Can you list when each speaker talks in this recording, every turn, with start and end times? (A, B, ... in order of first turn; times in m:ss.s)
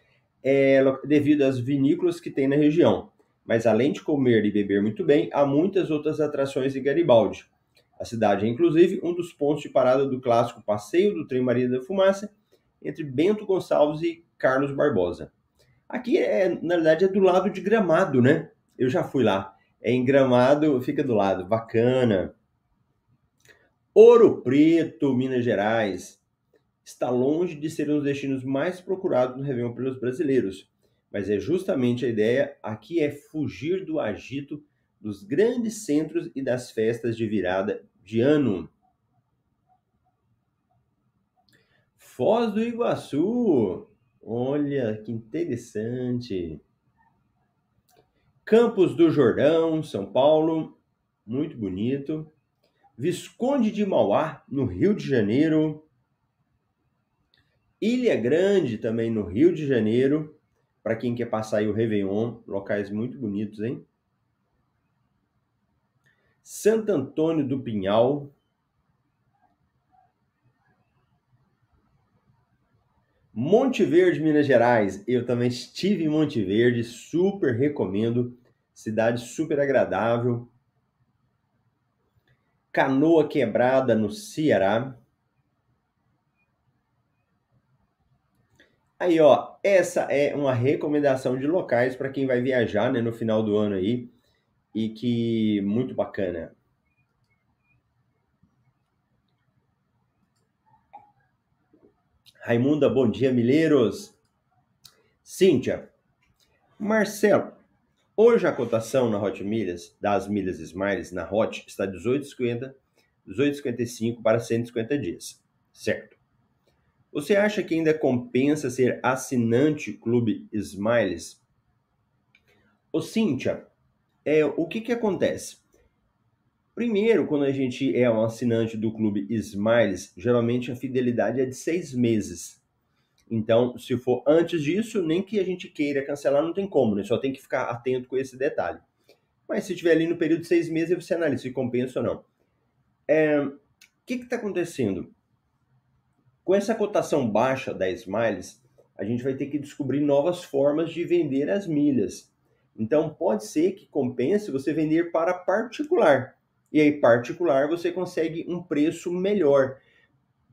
0:00.4-0:15.3 A
0:15.9-0:22.3 A
0:23.9-0:26.2 A
0:26.8-0:38.7 A
0:42.0-0:46.6 A
0:48.4-0:52.3 A
0:53.0-0:55.9 A
0:57.8-1:03.8 A
1:06.4-1:08.3 A
1:13.3-1:20.5 A
1:22.7-1:25.0 A
1:29.0-1:34.1 A
1:34.7-1:36.6 A
1:42.4-1:44.2 A
1:45.2-1:45.9 A
1:46.8-1:47.6 A
1:48.2-1:56.2 A
1:57.1-2:01.4 A
2:02.9-2:03.7 A
2:04.2-2:05.6 A
2:06.8-2:12.6 A
2:13.3-2:18.8 A
2:19.5-2:22.2 A
2:23.1-2:25.1 A
2:26.4-2:39.8 A